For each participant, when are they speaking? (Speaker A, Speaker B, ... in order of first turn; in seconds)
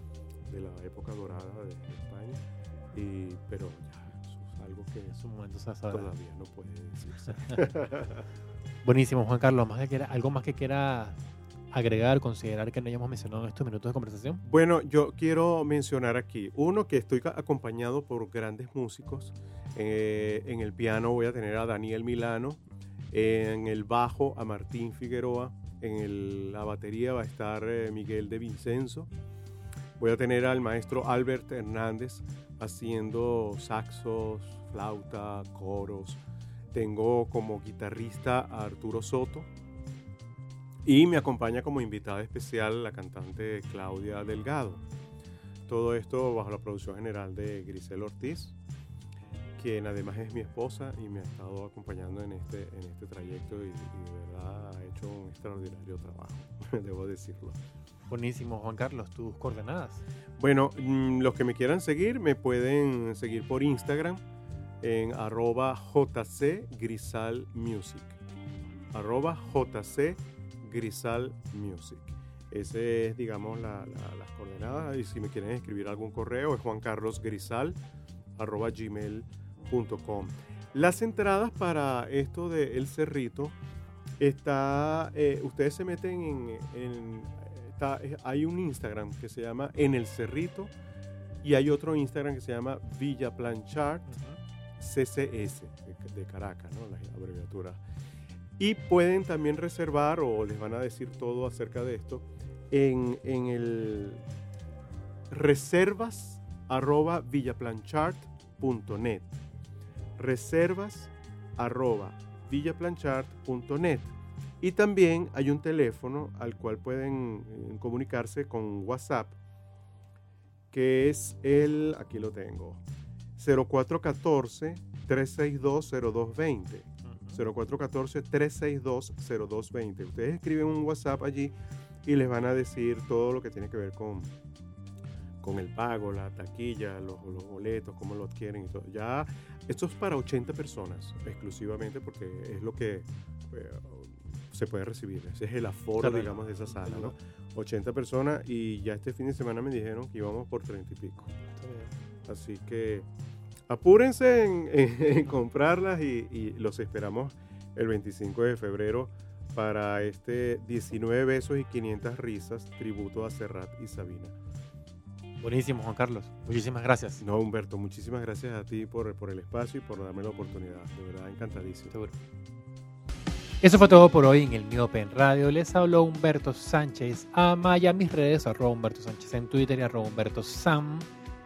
Speaker A: 0.5-5.2, 5.9-8.3, 14.4-29.1, 30.0-39.5, 40.9-44.9, 45.7-48.6, 49.6-57.6, 60.4-64.2, 64.8-68.2, 68.9-77.8, 78.4-83.6, 84.2-90.7, 91.4-94.2, 94.8-97.8, 98.6-104.2, 105.3-109.4, 110.2-119.4, 120.7-122.8, 123.4-134.3, 135.4-151.3, 152.3-153.1, 153.7-164.3, 167.2-172.0
Speaker B: 5.1-6.1, 7.3-7.7, 8.8-11.2, 11.7-14.4, 58.1-60.0, 94.1-94.4, 127.0-127.4, 146.0-147.1, 151.5-151.9, 165.4-167.2, 171.9-172.2, 173.6-181.1